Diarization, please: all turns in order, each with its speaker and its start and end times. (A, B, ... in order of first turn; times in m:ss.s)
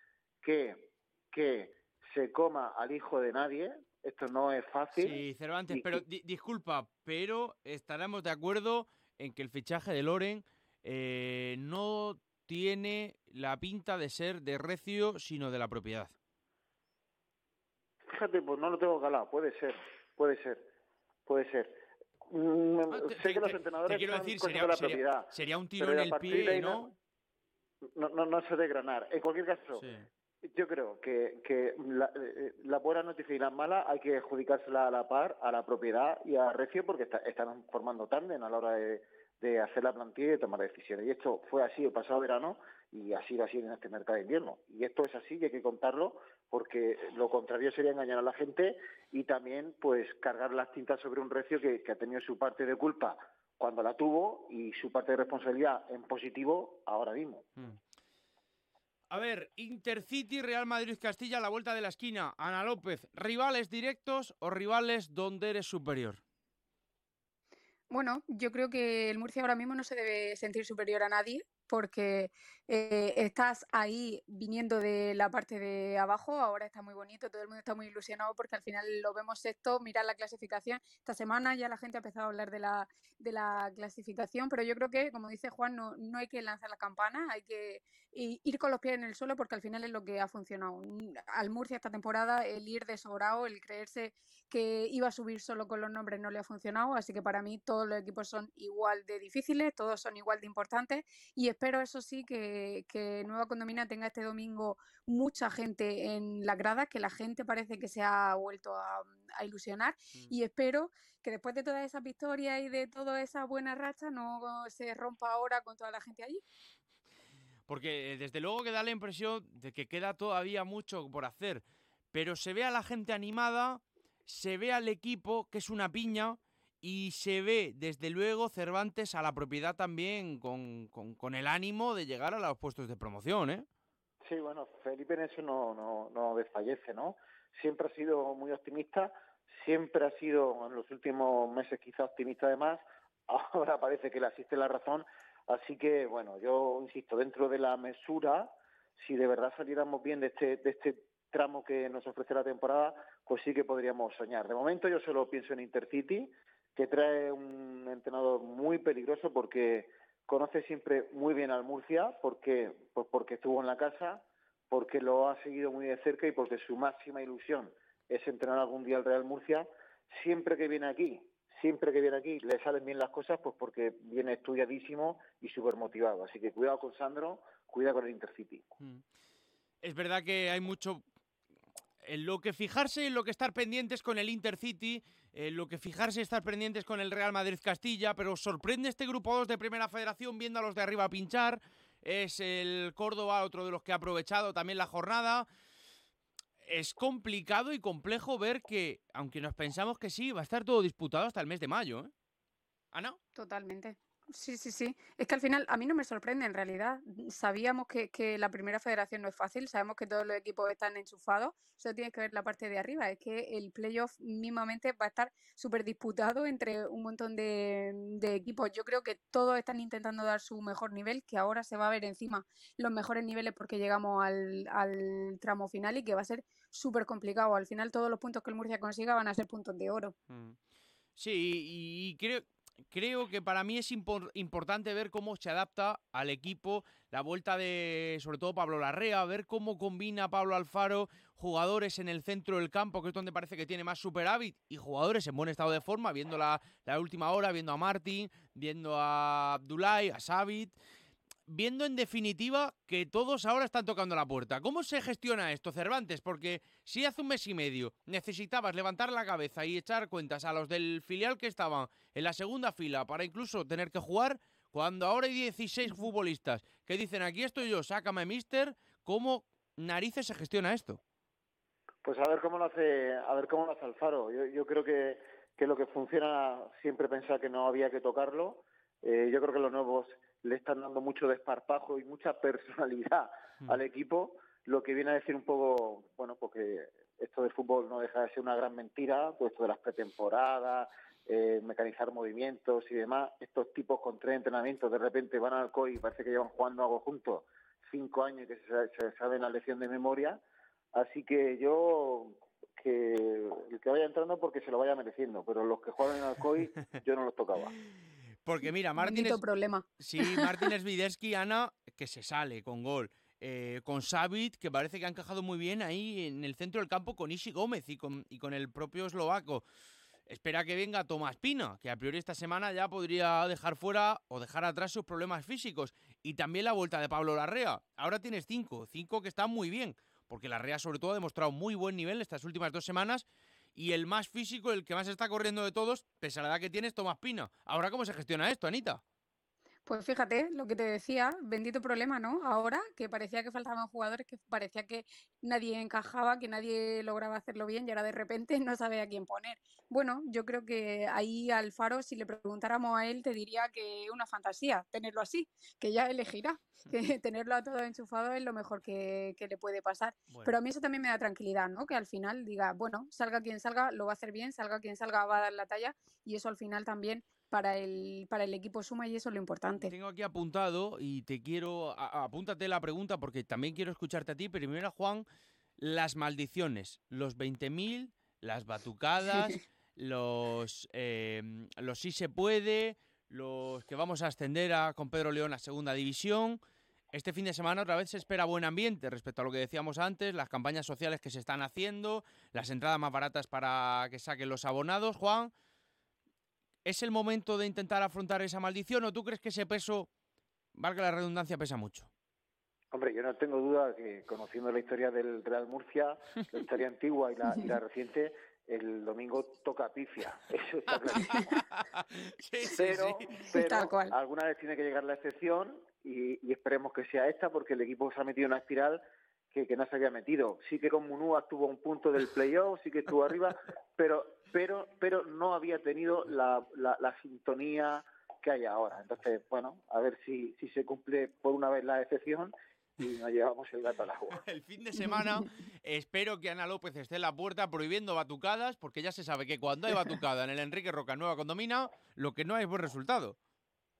0:00.4-0:05.2 A
0:04.9-0:16.1 B
0:05.7-0:06.0 A
0:18.1-0:20.7 A
0:21.3-0:26.9 A
0:22.9-0:26.9 B
0:27.9-0:29.8 A
0:29.8-0:30.0 B
0:30.4-0:57.5 A
0:59.1-1:06.2 B
1:07.9-1:56.4 C
1:57.7-2:13.6 B
2:14.2-2:58.6 A
2:59.8-3:01.0 B
3:02.0-3:15.5 B
3:16.6-3:22.1 B
3:22.9-3:23.2 B
3:23.4-3:50.1 C
3:50.3-3:50.6 B
3:51.2-4:10.7 B
4:11.5-4:31.0 B
4:32.0-5:00.4 A
5:00.9-5:07.8 A
5:08.4-5:09.4 B
5:09.0-5:10.5 C
5:10.0-5:19.6 B
5:20.3-5:39.0 B
5:39.8-6:09.9 C
6:09.8-6:15.2 B
6:15.8-6:26.6 B
6:27.1-6:35.5 B
6:36.8-6:40.1 B
6:40.7-6:42.1 B
6:42.9-6:51.6 A
6:50.9-6:53.3 B
6:52.7-7:14.4 A
6:53.5-6:54.1 C
7:14.4-7:23.4 B